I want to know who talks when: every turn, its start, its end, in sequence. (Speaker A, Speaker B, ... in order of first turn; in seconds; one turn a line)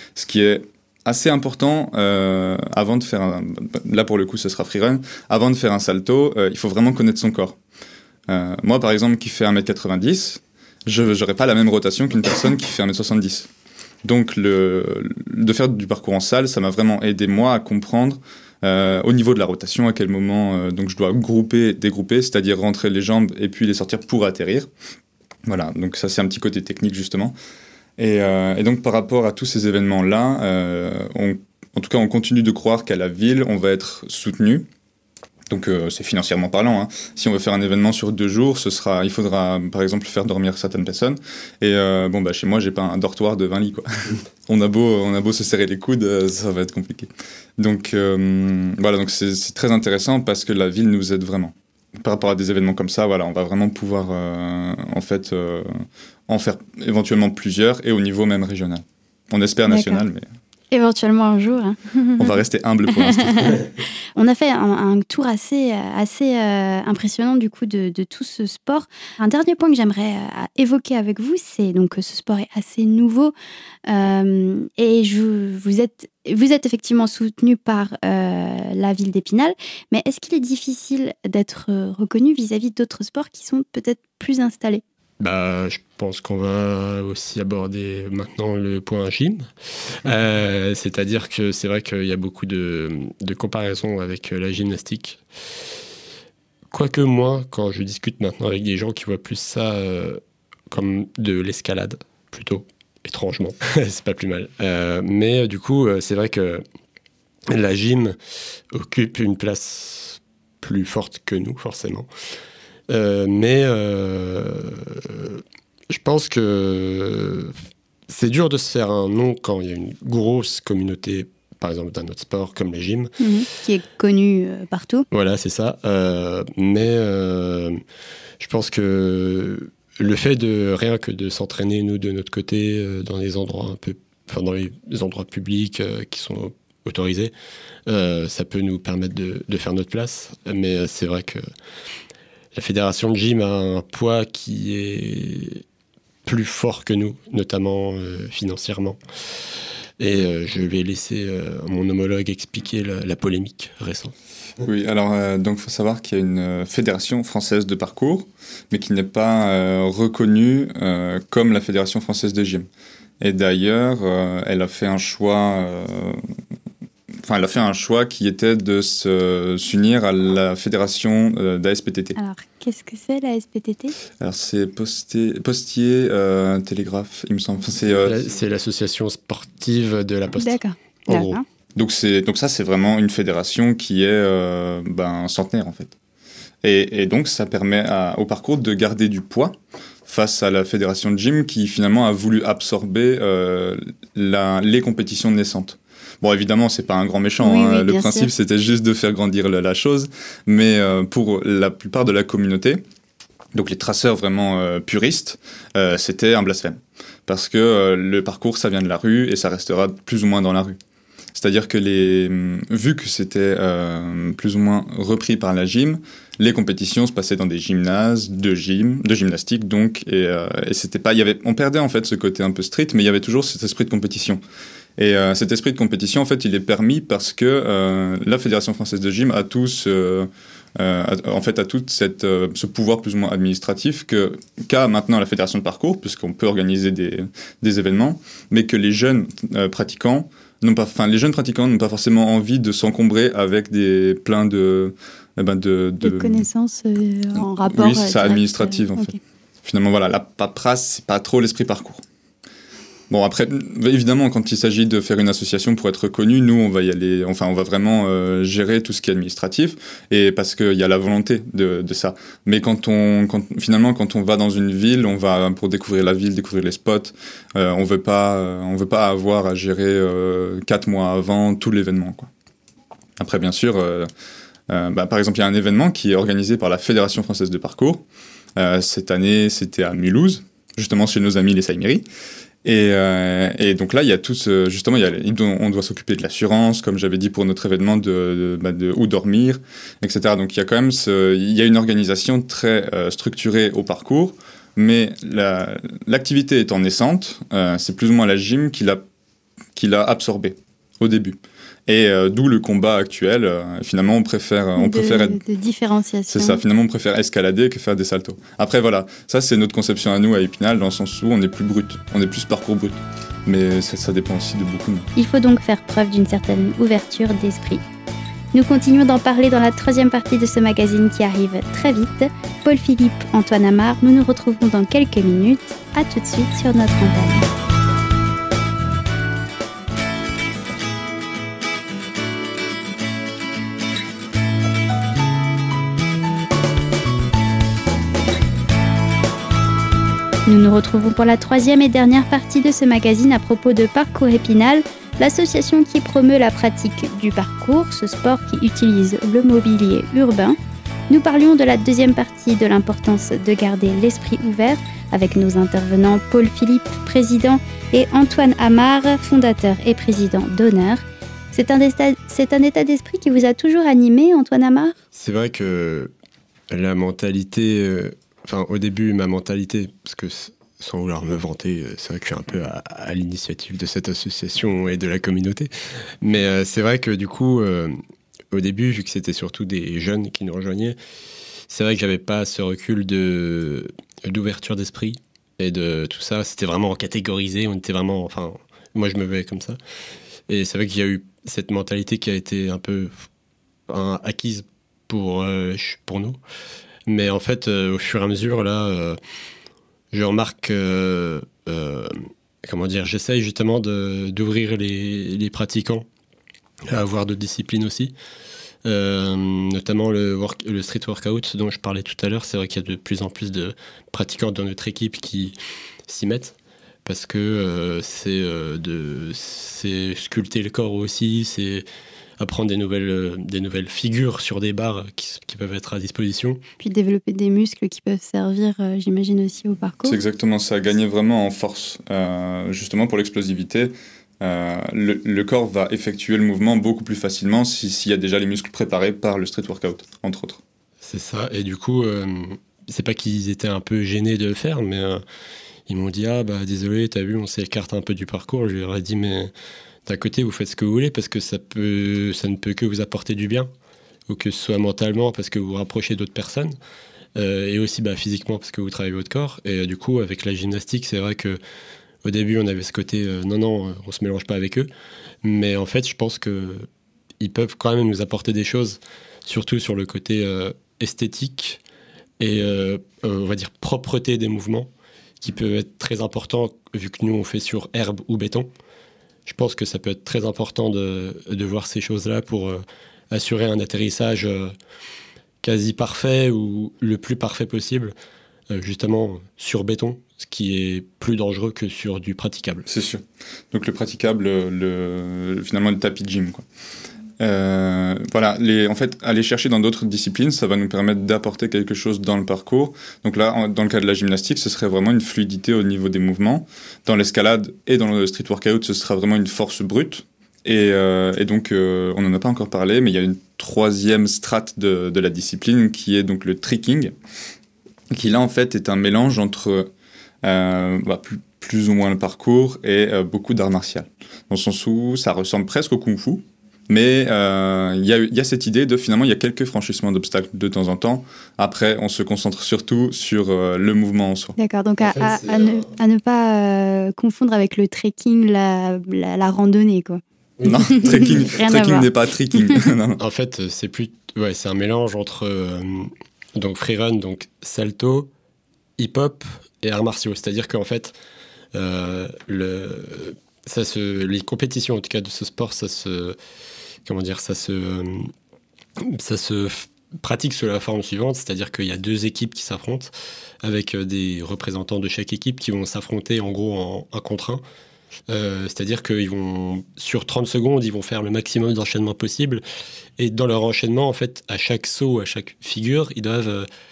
Speaker A: 0.1-7.6
Speaker A: 8.3-13.5
Speaker A: 14.1-24.7
Speaker A: 25.5-27.4
Speaker A: 28.0-34.7
Speaker A: 35.5-43.9
Speaker A: 44.5-60.3
Speaker B: 59.7-60.0
Speaker B: 60.7-62.3
Speaker A: 62.2-63.6
Speaker B: 63.0-73.3
Speaker B: 73.9-84.8
Speaker C: 85.2-89.5
Speaker C: 90.0-95.2
Speaker C: 96.7-106.6
Speaker C: 107.5-108.2
Speaker C: 108.7-112.1
Speaker C: 112.9-117.6
Speaker C: 118.1-123.1
Speaker B: 123.2-125.1
Speaker C: 125.1-127.8
Speaker C: 128.4-137.3
Speaker C: 137.9-141.4
Speaker C: 142.6-145.6
Speaker C: 146.2-149.0
Speaker C: 150.0-154.1
Speaker A: 154.6-162.7
Speaker A: 163.2-166.2
Speaker A: 167.2-172.2
Speaker B: 172.2-173.9
Speaker A: 174.2-178.2
Speaker C: 178.1-181.4
Speaker B: 180.4-181.4
Speaker A: 181.8-185.9
Speaker A: 186.6-202.8
Speaker B: 197.4-198.3
Speaker A: 203.6-210.8
Speaker A: 211.3-224.4
Speaker A: 225.0-246.5
Speaker B: 246.0-249.2
Speaker A: 247.4-249.1
Speaker A: 249.6-252.0
Speaker A: 253.1-272.3
Speaker A: 273.2-274.1
Speaker A: 274.7-278.1
Speaker A: 278.6-282.1
Speaker A: 282.6-299.0
Speaker A: 299.8-305.4
Speaker B: 304.8-306.6
Speaker A: 306.3-315.1
Speaker B: 315.2-317.8
Speaker B: 318.5-327.5
Speaker B: 340.5-350.6
Speaker B: 351.1-364.9
Speaker C: 365.1-366.1
Speaker C: 366.7-375.7
Speaker C: 376.2-378.0
Speaker C: 378.5-381.0
Speaker C: 381.7-389.8
Speaker C: 390.5-393.3
Speaker C: 393.9-396.4
Speaker C: 397.1-399.2
Speaker C: 400.1-406.1
Speaker C: 406.9-408.1
Speaker C: 408.9-415.6
Speaker C: 416.1-421.9
Speaker C: 422.4-426.6
Speaker B: 426.8-430.2
Speaker A: 430.1-440.6
Speaker C: 441.0-445.2
Speaker C: 445.9-449.5
Speaker C: 450.1-453.7
Speaker C: 454.3-456.8
Speaker C: 457.4-461.6
Speaker C: 462.2-464.9
Speaker C: 465.4-466.9
Speaker C: 467.4-471.8
Speaker C: 472.4-474.9
Speaker C: 475.4-478.7
Speaker C: 479.5-484.7
Speaker C: 485.6-488.1
Speaker C: 488.7-492.9
Speaker A: 492.9-496.6
Speaker A: 497.4-517.1
Speaker A: 518.1-519.9
Speaker A: 520.4-534.5
Speaker B: 534.6-542.1
Speaker C: 535.0-535.9
Speaker A: 540.7-543.2
Speaker B: 542.6-542.9
Speaker C: 543.2-548.3
Speaker C: 549.0-551.1
Speaker C: 551.7-556.4
Speaker C: 557.1-558.3
Speaker C: 559.0-563.1
Speaker C: 563.6-567.6
Speaker C: 568.3-572.6
Speaker C: 573.2-576.7